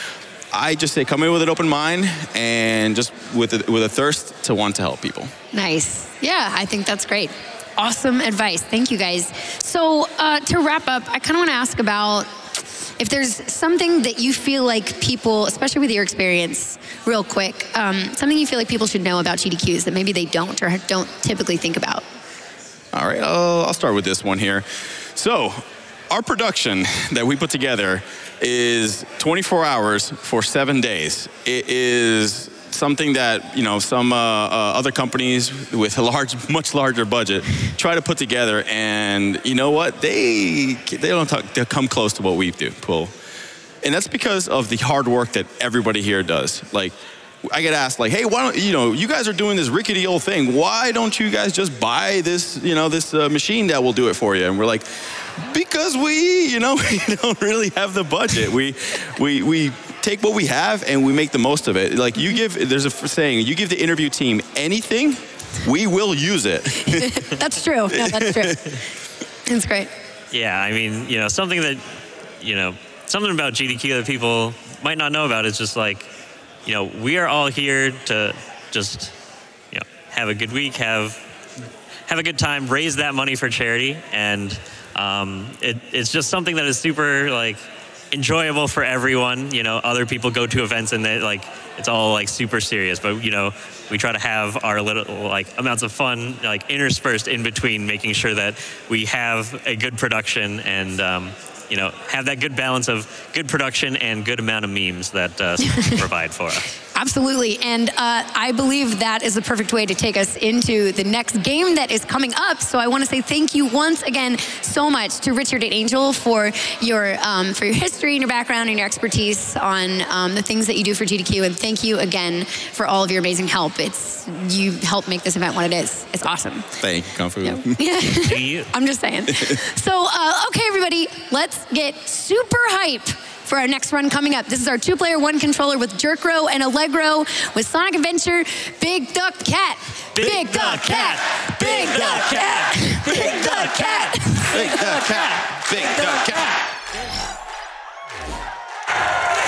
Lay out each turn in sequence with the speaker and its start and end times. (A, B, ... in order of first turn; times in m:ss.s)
0:00.5-0:05.3 A
0:05.5-0:12.3 B
0:13.0-0:22.0 B
0:22.9-0:43.1 A
0:43.8-0:47.0 A
0:47.5-1:07.2 A
1:06.8-1:08.6 B
1:07.9-1:08.6 A
1:09.5-1:09.9 B
1:10.3-1:11.8 C
1:12.4-1:16.1 C
1:16.7-1:19.1 C
1:19.7-1:21.2 C
1:22.1-1:27.6 C
1:28.1-1:46.7 C
1:45.7-1:46.0 B
1:47.0-2:06.7 B
2:06.8-2:07.7 A
2:07.4-2:25.1 B
2:08.3-2:08.7 C
2:20.2-2:21.0 A
2:21.6-2:22.3 A
2:23.1-2:23.4 A
2:24.5-2:26.5 A
2:25.9-2:26.3 B